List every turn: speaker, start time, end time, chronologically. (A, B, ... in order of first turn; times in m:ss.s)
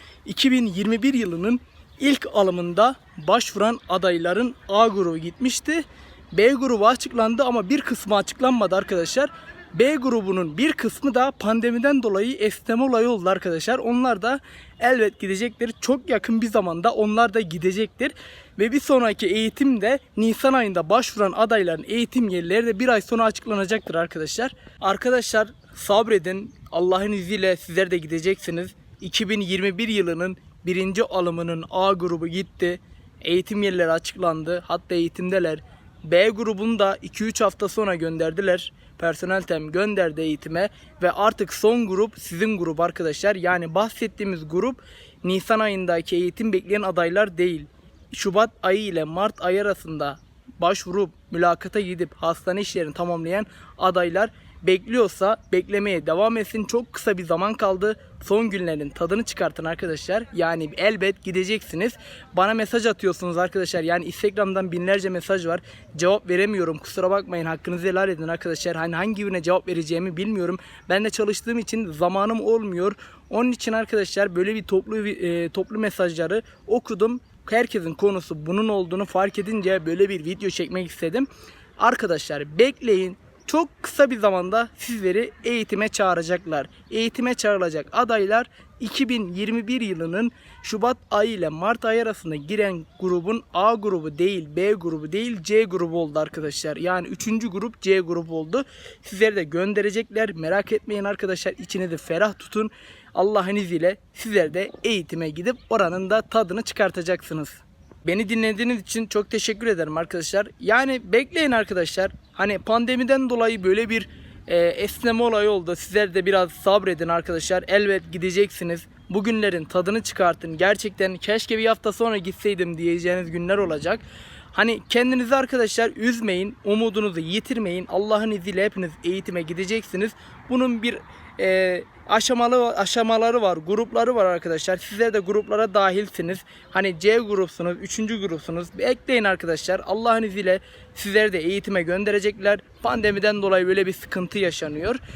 0:00.2-1:21.3 A
1:21.8-2:25.0 A